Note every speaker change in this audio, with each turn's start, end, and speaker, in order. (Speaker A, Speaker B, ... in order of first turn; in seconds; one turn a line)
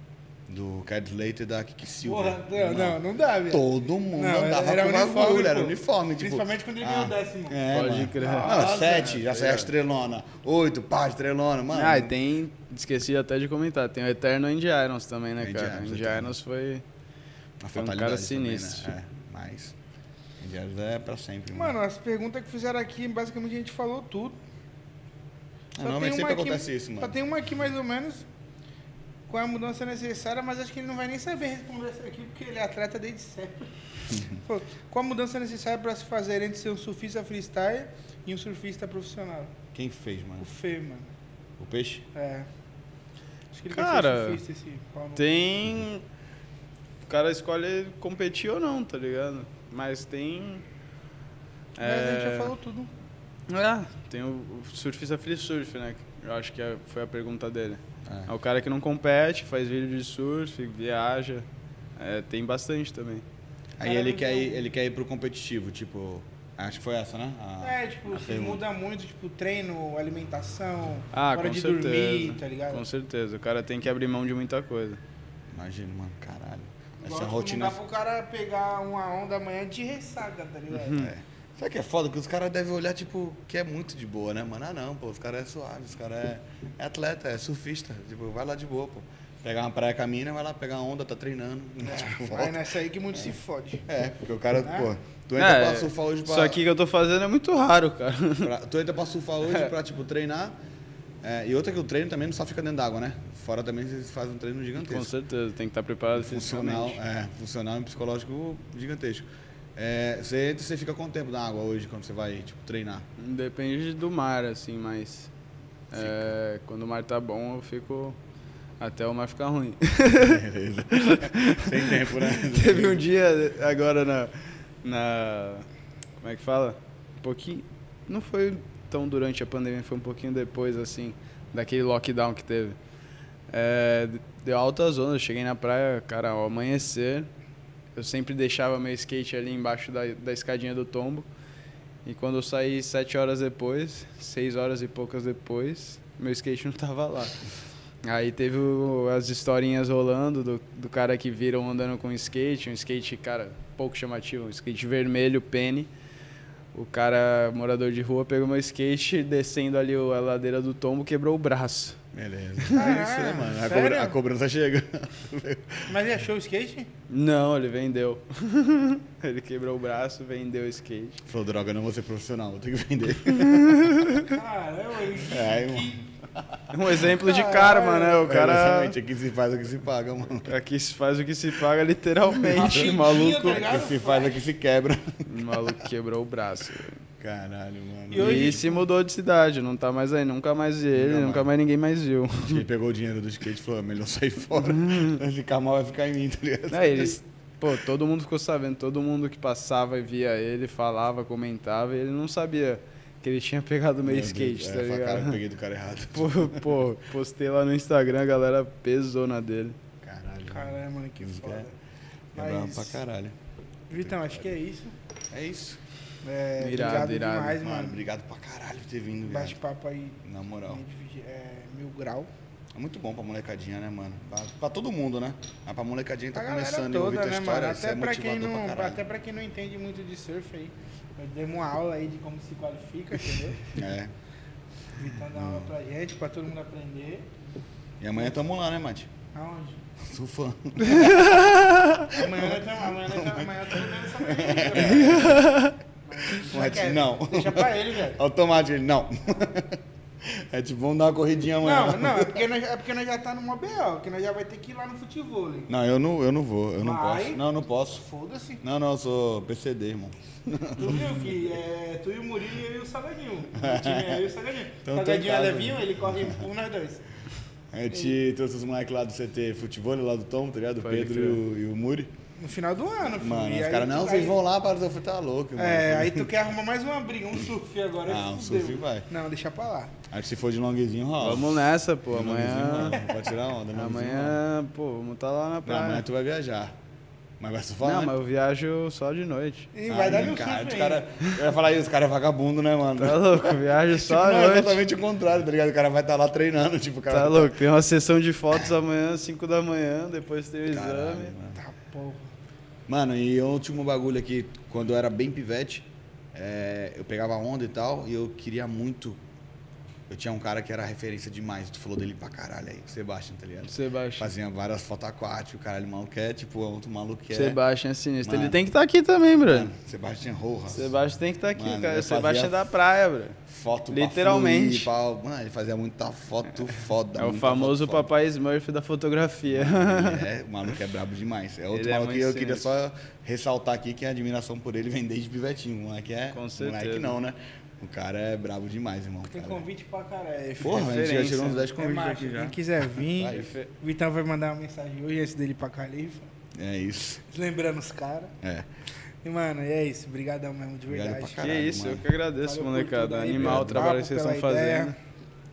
Speaker A: 0.5-12.1
Speaker B: 2.0-7.6
Speaker C: 7.7-9.7
Speaker B: 8.2-9.2
Speaker C: 11.7-16.8
Speaker A: 15.4-16.4
Speaker A: 17.6-19.8
Speaker C: 17.7-18.9
Speaker A: 20.4-21.8
Speaker B: 21.5-24.4
Speaker A: 25.8-27.1
Speaker B: 25.8-28.2
Speaker B: 29.3-33.7
Speaker A: 34.1-34.4
Speaker B: 34.3-39.6
Speaker A: 39.8-40.5
Speaker B: 40.4-41.1
Speaker A: 41.6-42.1
Speaker B: 42.1-42.5
Speaker B: 43.5-45.5
Speaker C: 43.7-44.4
Speaker C: 45.2-46.0
Speaker C: 47.1-50.6
Speaker C: 51.8-52.5
Speaker B: 51.8-52.9
Speaker C: 53.5-61.5
Speaker C: 62.0-63.2
Speaker A: 63.8-68.6
Speaker B: 63.8-64.6
Speaker B: 67.6-72.8
Speaker C: 71.1-75.0
Speaker A: 75.5-77.8
Speaker B: 77.0-81.0
Speaker C: 80.7-81.1
Speaker A: 81.0-93.2
Speaker B: 91.8-93.8
Speaker A: 93.9-96.6
Speaker B: 94.6-94.9
Speaker C: 95.4-98.5
Speaker A: 98.4-100.6
Speaker A: 101.2-105.1
Speaker C: 104.8-107.0
Speaker A: 106.1-109.2
Speaker A: 109.8-113.1
Speaker C: 113.2-115.3
Speaker C: 115.9-118.2
Speaker A: 116.0-116.3
Speaker C: 118.8-125.7
Speaker A: 120.2-123.1
Speaker C: 126.2-132.8
Speaker C: 133.5-137.3
Speaker C: 138.0-141.3
Speaker C: 142.1-147.4
Speaker C: 148.0-155.9
Speaker C: 156.7-162.0
Speaker A: 162.1-166.0
Speaker B: 162.7-164.2
Speaker B: 165.9-166.9
Speaker C: 167.1-171.2
Speaker A: 171.2-174.2
Speaker C: 173.3-174.2
Speaker B: 174.2-176.1
Speaker A: 175.3-177.0
Speaker C: 176.7-179.0
Speaker B: 177.0-178.2
Speaker A: 178.2-180.5
Speaker C: 180.5-183.6
Speaker B: 182.5-184.4
Speaker A: 182.5-185.8
Speaker C: 185.2-187.0
Speaker A: 187.2-188.6
Speaker B: 188.1-188.9
Speaker C: 188.2-192.6
Speaker A: 190.9-191.5
Speaker A: 192.4-197.2
Speaker C: 194.6-195.2
Speaker C: 196.7-205.4
Speaker A: 204.0-206.8
Speaker C: 206.1-209.8
Speaker A: 210.0-211.7
Speaker B: 210.5-211.7
Speaker A: 212.3-213.3
Speaker B: 212.3-213.0
Speaker B: 213.9-214.9
Speaker A: 215.3-215.8
Speaker B: 216.2-218.0
Speaker C: 216.6-217.6
Speaker A: 217.6-219.6
Speaker B: 219.3-222.3
Speaker A: 220.2-220.8
Speaker A: 222.7-229.0
Speaker B: 226.3-233.8
Speaker A: 233.7-234.1
Speaker B: 235.0-237.3
Speaker A: 235.3-235.7
Speaker A: 238.0-239.1
Speaker B: 239.3-239.8
Speaker A: 240.0-245.6
Speaker B: 240.9-241.4
Speaker C: 241.0-242.0
Speaker B: 241.9-245.5
Speaker C: 245.0-245.8
Speaker B: 246.1-248.2
Speaker A: 246.3-252.4
Speaker B: 251.6-255.7
Speaker A: 255.7-258.1
Speaker B: 256.8-257.4
Speaker B: 258.0-258.6
Speaker A: 258.6-261.4
Speaker B: 260.7-267.0
Speaker A: 263.6-264.3
Speaker A: 264.8-266.4
Speaker A: 267.7-272.1
Speaker C: 270.8-271.4
Speaker B: 272.4-274.4
Speaker A: 273.2-276.3
Speaker B: 275.6-279.9
Speaker A: 278.1-279.1
Speaker A: 280.1-284.4
Speaker C: 281.2-283.0
Speaker C: 283.7-286.1
Speaker A: 285.7-286.8
Speaker A: 287.4-288.1
Speaker C: 287.8-289.7
Speaker B: 289.7-291.1
Speaker A: 289.9-297.6
Speaker C: 293.0-294.8
Speaker C: 297.1-301.3
Speaker A: 300.7-301.6
Speaker B: 301.6-302.2
Speaker A: 302.9-309.2
Speaker A: 310.1-317.6
Speaker C: 313.7-314.3
Speaker C: 317.3-319.7
Speaker A: 318.2-318.6
Speaker A: 319.5-321.0
Speaker C: 320.7-323.4
Speaker A: 321.5-322.7
Speaker A: 323.5-328.1
Speaker C: 323.9-324.9
Speaker C: 327.2-330.3
Speaker A: 329.5-339.7
Speaker C: 331.7-332.6
Speaker C: 336.3-337.2
Speaker B: 339.3-341.0
Speaker A: 340.6-343.5
Speaker C: 340.6-341.7
Speaker B: 341.8-346.3
Speaker A: 346.5-347.2
Speaker B: 347.3-348.3
Speaker A: 348.4-348.7
Speaker B: 349.2-351.5
Speaker A: 350.9-352.1
Speaker C: 351.4-354.9
Speaker B: 352.4-354.9
Speaker A: 353.4-353.9